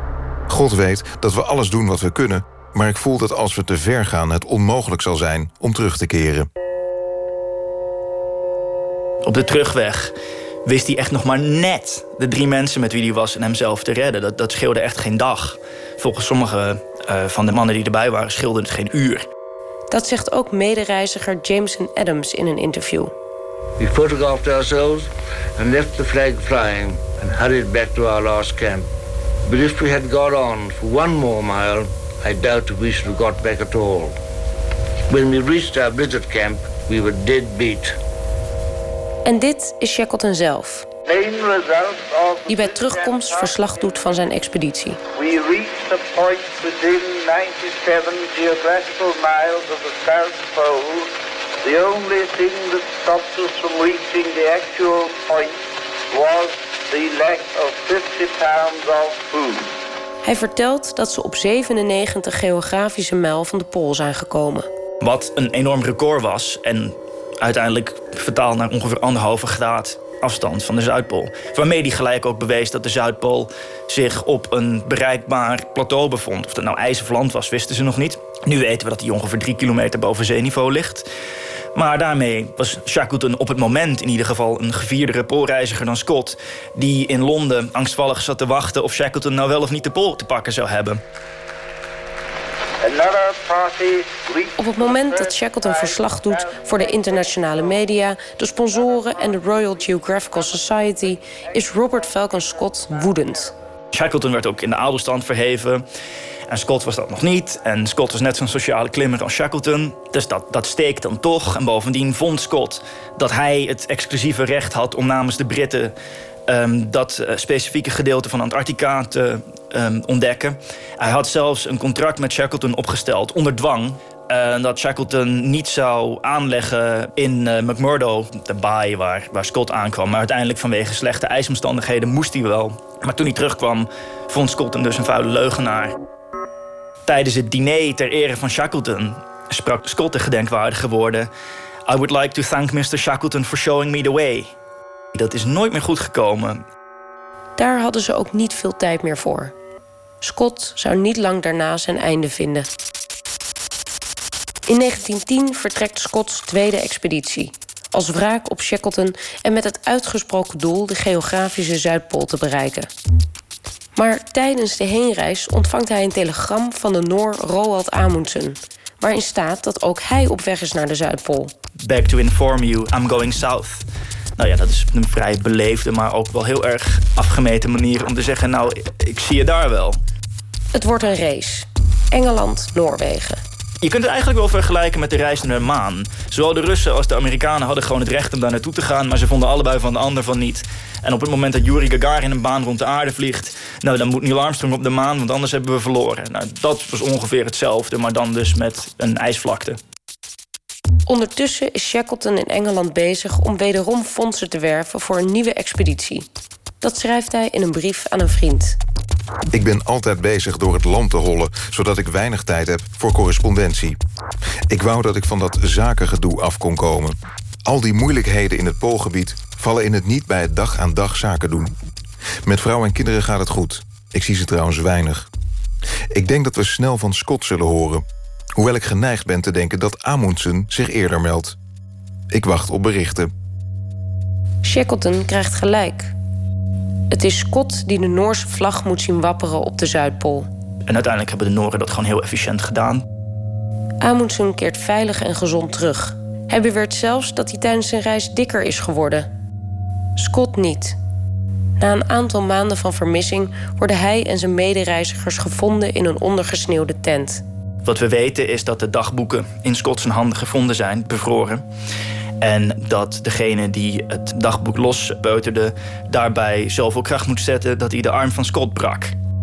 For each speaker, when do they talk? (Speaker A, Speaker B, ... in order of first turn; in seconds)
Speaker A: 0.5-6.5, 209.5-214.0, 214.7-221.7, 222.4-225.3, 226.1-228.1, 228.6-231.6, 232.3-233.3
Speaker B: 9.2-10.1, 10.7-19.3, 65.0-81.1, 81.8-91.0, 103.9-105.8, 106.5-115.9, 116.5-135.9, 137.1-141.3, 141.9-144.5, 145.2-146.6, 171.8-173.8, 174.4-180.0, 183.8-199.8, 240.9-243.0, 257.8-261.6, 262.4-269.2
Speaker C: 19.9-23.1, 39.2-40.9, 42.5-45.0, 60.2-64.7, 94.6-103.5, 147.6-149.5, 150.2-152.7, 154.7-162.9, 164.0-171.5, 180.7-183.4, 201.1-206.3, 206.8-208.8, 234.6-236.1, 237.1-240.5, 244.0-249.3, 250.2-251.0, 251.8-257.4
Speaker D: 23.8-28.9, 29.5-34.1, 35.1-37.9
Speaker E: 41.1-43.8, 45.1-51.1, 51.6-59.7, 92.8-97.3